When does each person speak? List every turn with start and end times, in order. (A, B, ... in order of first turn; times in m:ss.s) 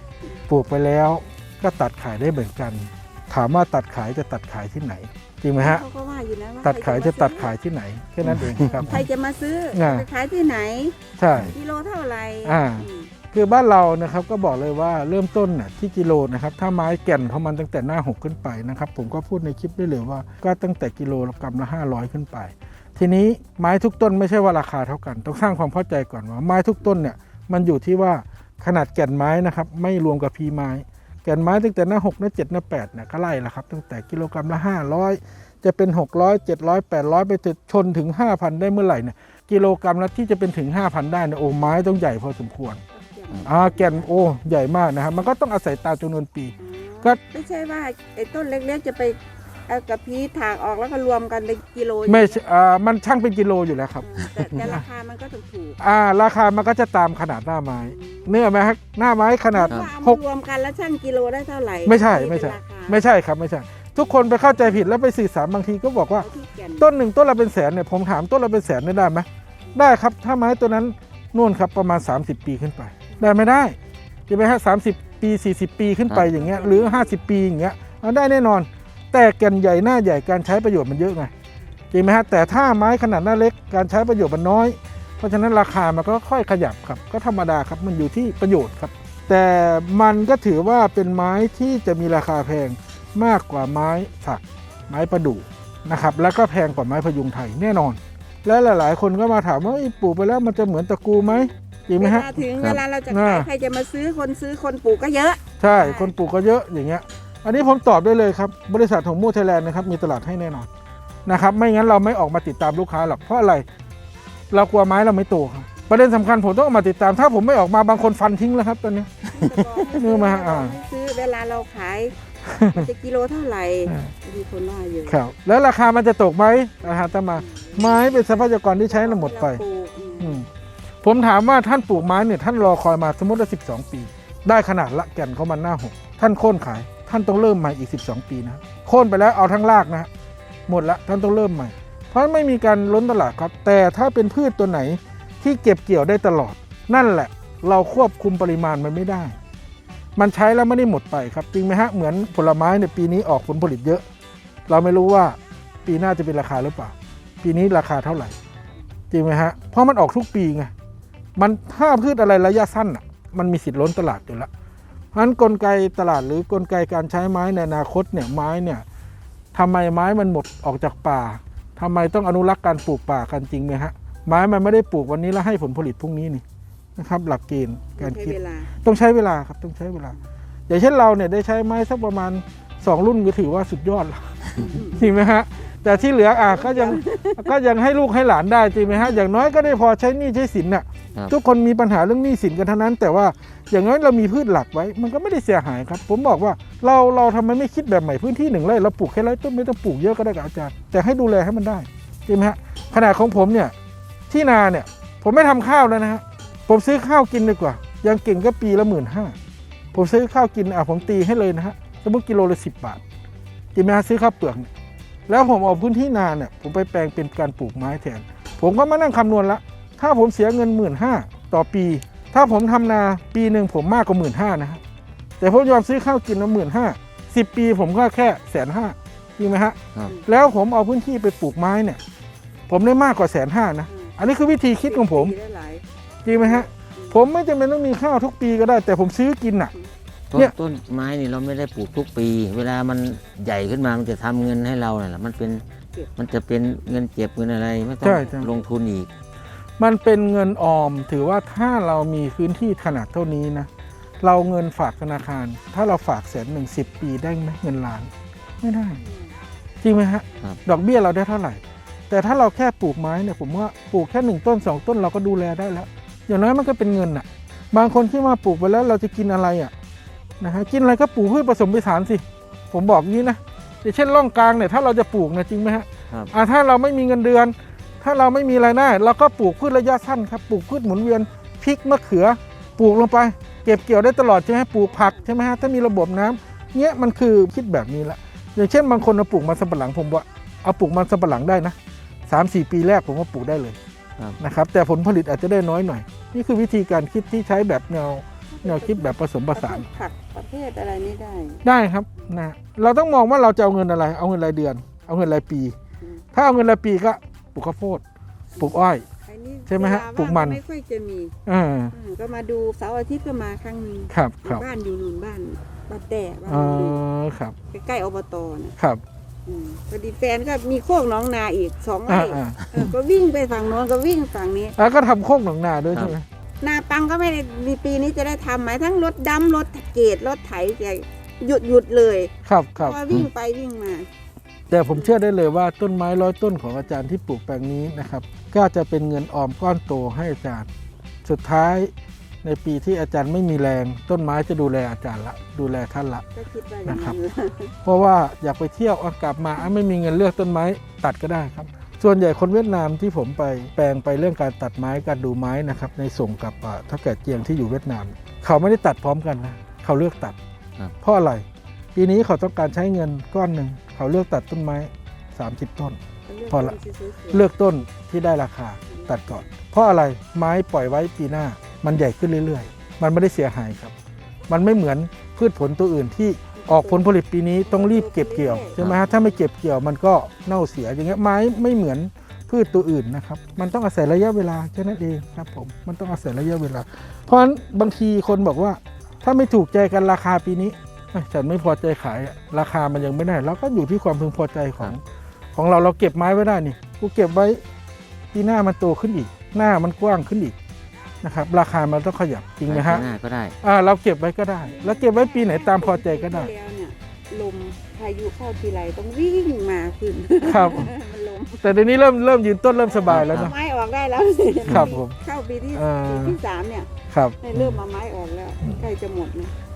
0:00.5-0:05.8 A
0:05.6-0:07.5 B
0:06.6-0:09.0 A
0:08.6-0:13.1 B
0:09.7-0:10.1 A
0:11.2-0:11.5 A
0:12.4-0:42.8 A
0:42.9-0:44.1 B
0:43.4-0:47.2 A
0:46.6-0:52.4 B
0:52.1-0:54.1 A
0:54.0-0:55.8 B
0:55.8-1:00.2 A
0:57.8-0:58.3 B
0:59.5-1:03.0 B
1:01.8-1:06.2 A
1:04.0-1:04.8 B
1:06.1-1:06.9 B
1:06.8-1:13.8 A
1:13.1-1:13.4 B
1:14.3-1:21.3 A
1:16.3-1:17.1 B
1:21.9-1:42.3 A
1:41.3-1:46.2 B
1:43.1-1:43.5 A
1:45.6-1:50.7 A
1:51.2-1:53.7 A
1:54.5-2:00.8 A
1:59.3-2:05.2 B
2:02.4-2:02.9 A
2:05.1-2:09.6 A
2:07.2-2:10.4 B
2:10.2-2:10.5 A
2:11.0-2:20.1 A
2:20.7-2:29.4 A
2:30.2-2:34.0 A
2:34.7-2:38.4 A
2:39.1-2:40.7 A
2:41.4-2:44.5 A
2:45.1-2:48.8 A
2:49.5-2:56.4 A
2:57.0-3:23.7 A
2:58.0-2:58.8 B
3:04.6-3:05.1 B
3:05.8-3:07.5 B
3:24.3-3:29.4 A
3:29.9-3:33.0 A
3:33.7-3:34.7 A
3:35.3-3:44.8 A
3:45.4-3:52.0 A
3:52.7-3:55.3 A
3:53.9-3:54.2 B
3:54.8-3:55.8 B
3:56.2-3:59.7 A
3:56.4-3:57.2 B
4:00.3-4:05.6 C
4:06.2-4:09.1 C
4:08.0-4:08.5 A
4:09.8-4:13.7 A
4:14.2-4:18.1 A
4:18.6-4:19.0 A
4:18.9-4:19.3 B
4:19.8-4:29.7 A
4:30.4-4:51.8 A
4:44.9-4:45.2 B
4:52.3-4:53.8 A
4:54.4-4:59.8 A
4:58.5-5:01.6 B
5:01.6-5:05.8 A
5:06.3-5:08.0 A
5:08.6-5:11.3 B
5:08.6-5:09.0 A
5:09.7-5:10.6 A
5:11.4-5:11.9 A
5:11.9-5:17.0 B
5:14.1-5:14.6 A
5:16.5-5:17.6 A
5:17.7-5:18.8 B
5:19.4-5:24.8 B
5:22.1-5:22.9 A
5:24.8-5:26.2 A
5:26.6-5:34.1 B
5:32.4-5:33.0 A
5:34.7-5:40.7 A
5:34.9-5:35.2 B
5:41.2-5:41.9 A
5:42.4-5:46.2 A
5:46.3-5:47.7 B
5:46.8-5:47.2 A
5:47.8-6:00.4 A
6:01.0-6:06.0 A
6:06.3-6:07.5 B
6:06.5-6:06.7 A
6:07.3-6:13.9 A
6:08.9-6:09.5 B
6:14.5-6:35.0 A
6:16.6-6:17.1 B
6:17.6-6:19.4 B
6:35.5-6:37.6 A
6:38.3-6:40.5 A
6:41.2-6:43.1 A
6:42.7-6:43.6 C
6:43.6-6:46.5 A
6:44.6-6:51.8 B
6:50.4-6:50.9 A
6:51.6-6:53.5 A
6:52.8-6:56.9 B
6:53.1-6:53.5 C
6:54.7-6:55.2 A
6:55.7-6:56.4 A
6:57.1-6:57.8 A
6:57.4-6:59.5 B